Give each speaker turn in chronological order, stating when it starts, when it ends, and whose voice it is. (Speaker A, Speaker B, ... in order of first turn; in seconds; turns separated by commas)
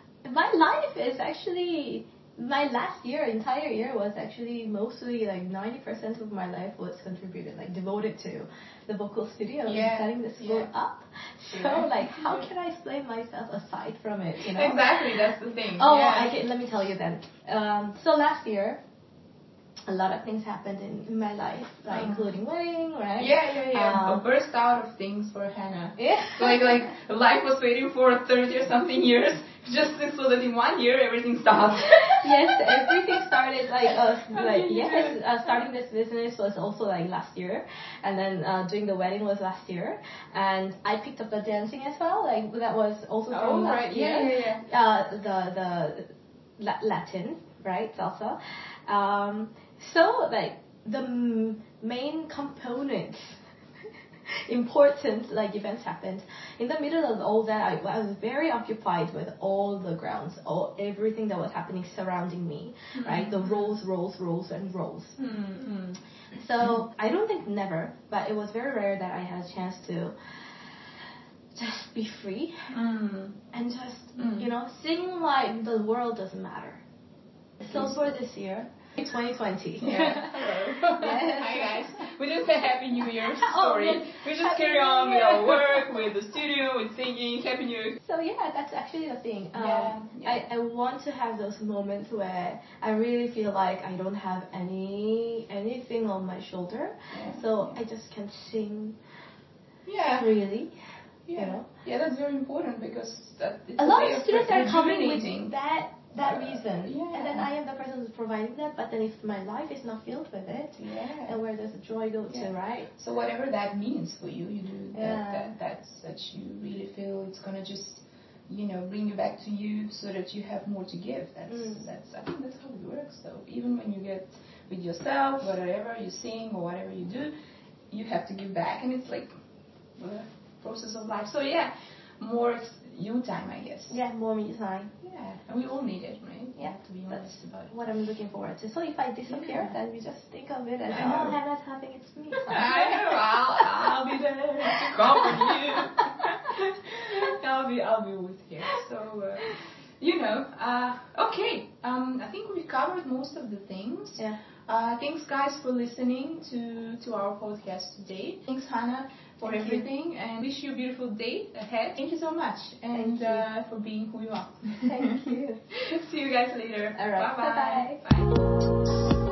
Speaker A: 0.2-15.2, Speaker B: 9.6-10.7, Speaker B: 11.5-12.4, Speaker B: 14.4-16.4, Speaker A: 15.8-18.8, Speaker A: 19.9-24.2, Speaker B: 21.9-22.3, Speaker B: 23.2-33.2, Speaker A: 26.0-26.8, Speaker A: 32.0-53.4, Speaker B: 33.9-35.6, Speaker B: 43.3-44.6, Speaker A: 54.3-65.2, Speaker B: 62.9-63.8, Speaker B: 65.2-66.0, Speaker A: 66.3-70.1, Speaker A: 71.5-72.7, Speaker B: 72.7-73.4, Speaker A: 73.5-76.8, Speaker B: 74.2-74.5, Speaker A: 77.6-81.9, Speaker B: 79.8-88.0, Speaker A: 83.3-86.1, Speaker A: 88.0-99.0, Speaker B: 89.5-90.4, Speaker B: 97.1-97.8, Speaker B: 99.9-100.3, Speaker A: 100.2-100.7, Speaker B: 101.3-105.5, Speaker A: 101.3-101.7, Speaker A: 103.8-112.9, Speaker B: 106.2-107.5, Speaker B: 110.8-111.4, Speaker B: 112.3-127.3, Speaker A: 114.9-115.5, Speaker B: 127.9-129.3, Speaker B: 130.0-133.9, Speaker A: 133.9-134.9, Speaker B: 135.0-137.7, Speaker A: 136.6-144.0, Speaker B: 139.3-139.7, Speaker B: 140.9-141.4, Speaker B: 142.4-165.3, Speaker A: 144.7-145.8, Speaker A: 159.4-159.8, Speaker A: 162.9-163.4, Speaker A: 164.8-165.9, Speaker B: 165.9-168.4, Speaker A: 166.9-168.0